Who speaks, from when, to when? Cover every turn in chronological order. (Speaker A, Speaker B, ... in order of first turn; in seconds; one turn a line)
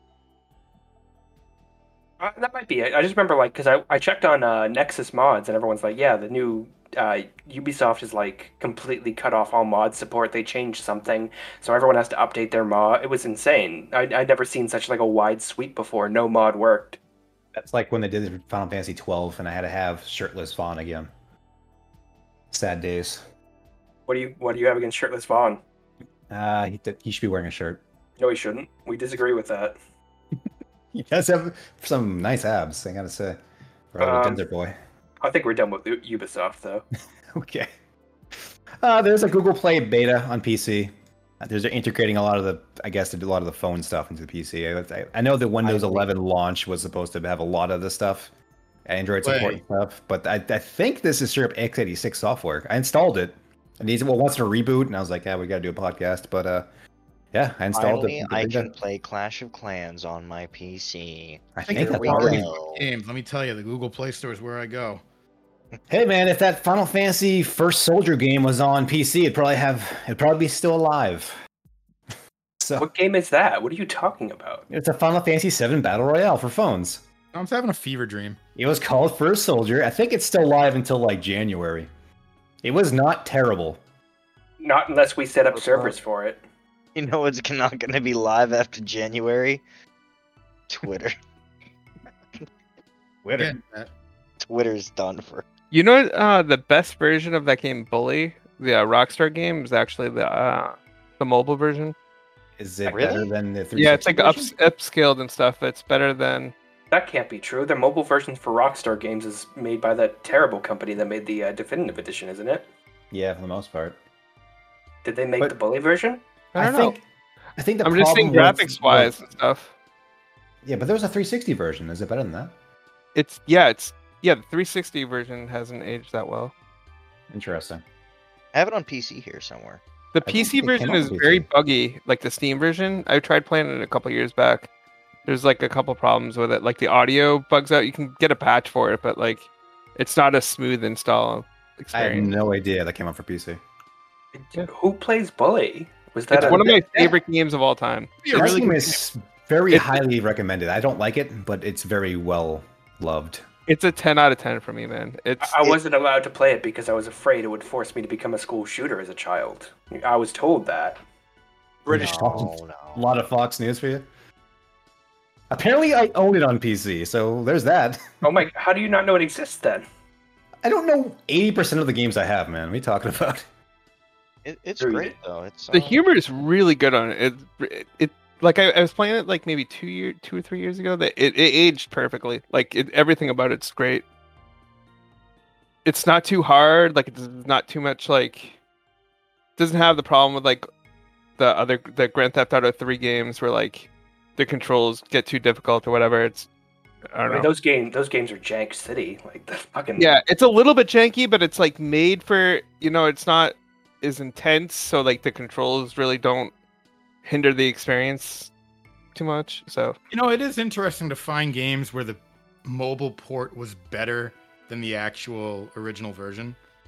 Speaker A: 2.2-17.0
Speaker B: 17.5-21.1
Speaker B: 22.5-23.3
Speaker A: 24.1-25.6
Speaker B: 26.3-27.8
Speaker A: 28.2-29.8
Speaker B: 30.9-33.4
Speaker B: 33.9-34.8
Speaker A: 34.0-34.4
Speaker A: 35.2-36.9
Speaker B: 37.3-37.7
Speaker B: 38.8-48.3
Speaker C: 45.6-46.1
Speaker B: 48.9-56.7
Speaker D: 49.2-49.6
Speaker B: 57.3-58.7
Speaker C: 57.7-62.9
Speaker B: 61.6-62.5
Speaker D: 61.6-65.0
Speaker B: 65.9-71.4
Speaker B: 72.6-72.9
Speaker A: 72.8-74.7
Speaker B: 74.7-77.0
Speaker D: 77.3-78.4
Speaker B: 78.6-81.9
Speaker B: 82.6-83.8
Speaker A: 84.6-86.4
Speaker C: 87.0-89.6
Speaker C: 90.7-91.2
Speaker C: 93.2-93.5
Speaker D: 93.4-93.9
Speaker C: 94.4-95.5
Speaker E: 95.7-102.0
Speaker B: 102.6-104.5
Speaker C: 102.9-103.3
Speaker E: 103.8-106.5
Speaker A: 106.9-112.7
Speaker B: 113.1-114.0
Speaker A: 115.0-116.2
Speaker E: 116.5-117.0
Speaker B: 116.6-117.0
Speaker B: 117.6-119.2
Speaker E: 117.8-119.7
Speaker B: 120.6-122.5
Speaker E: 123.2-126.5
Speaker B: 127.3-127.8
Speaker C: 128.5-129.8
Speaker E: 130.1-134.7
Speaker B: 130.2-131.5
Speaker E: 135.3-142.4
Speaker B: 141.9-143.6
Speaker A: 144.4-146.7
Speaker E: 146.3-148.6
Speaker B: 146.4-146.7
Speaker D: 148.2-149.0
Speaker B: 148.3-153.5
Speaker E: 149.7-150.0
Speaker E: 153.7-155.7
Speaker A: 155.4-161.0
Speaker D: 161.9-162.5
Speaker B: 161.9-164.1
Speaker C: 161.9-163.1
Speaker B: 165.5-168.2
Speaker A: 168.2-169.8
Speaker B: 170.6-173.5
Speaker C: 174.4-176.0
Speaker A: 174.8-175.1
Speaker E: 175.7-184.1
Speaker E: 185.8-188.6
Speaker E: 189.6-190.7
Speaker E: 191.4-196.5
Speaker E: 197.1-197.5
Speaker A: 197.3-200.2
Speaker E: 200.0-206.5
Speaker E: 207.2-208.5
Speaker E: 209.2-210.0
Speaker D: 210.1-216.6